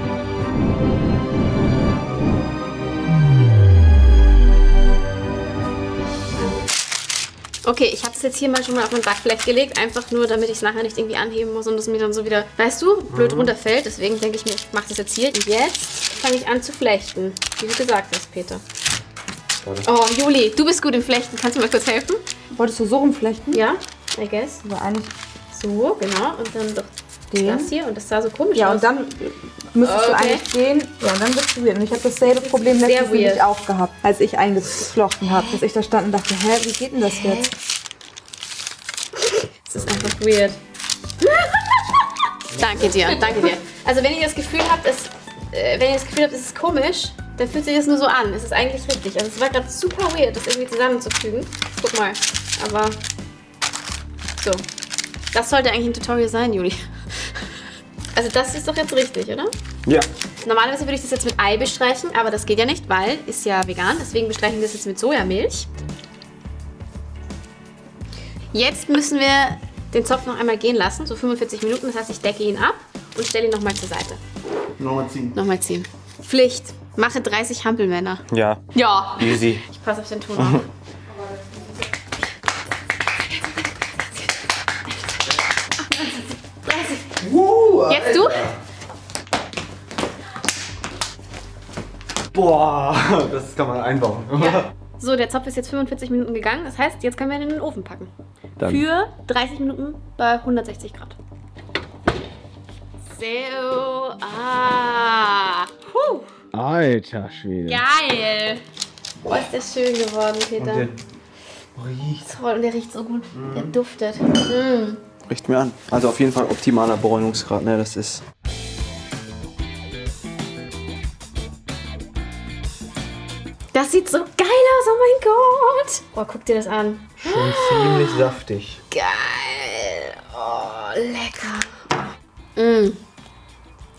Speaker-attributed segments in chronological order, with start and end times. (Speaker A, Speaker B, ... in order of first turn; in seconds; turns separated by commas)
Speaker A: 7.6-18.6, Speaker B: 13.1-13.5, Speaker B: 19.6-19.9, Speaker A: 19.8-22.2, Speaker C: 22.6-23.6, Speaker A: 23.5-24.6, Speaker C: 24.6-25.1, Speaker A: 25.5-29.0, Speaker C: 27.3-27.7, Speaker C: 28.6-37.5, Speaker A: 29.8-30.4, Speaker A: 32.3-33.5, Speaker A: 37.1-37.5, Speaker A: 39.3-40.6, Speaker A: 41.2-53.0, Speaker B: 42.6-43.2, Speaker A: 54.4-54.6, Speaker A: 55.3-57.5, Speaker A: 58.1-59.5, Speaker A: 60.4-65.7, Speaker A: 68.5-74.2, Speaker B: 74.8-75.4, Speaker A: 75.3-80.7, Speaker B: 78.3-79.6, Speaker B: 80.4-80.6, Speaker A: 83.5-84.3, Speaker A: 84.9-87.2, Speaker B: 87.2-88.5, Speaker A: 87.9-88.5, Speaker B: 92.3-94.7, Speaker A: 94.4-98.1, Speaker A: 98.6-101.2, Speaker A: 103.1-106.3, Speaker B: 106.5-107.8, Speaker A: 107.7-108.6, Speaker A: 109.2-110.9, Speaker B: 110.6-111.0, Speaker B: 111.8-112.3, Speaker A: 112.2-115.0, Speaker B: 113.4-113.7, Speaker B: 115.3-118.2, Speaker A: 123.7-128.3, Speaker B: 127.2-128.8, Speaker A: 128.9-132.0, Speaker A: 132.6-133.0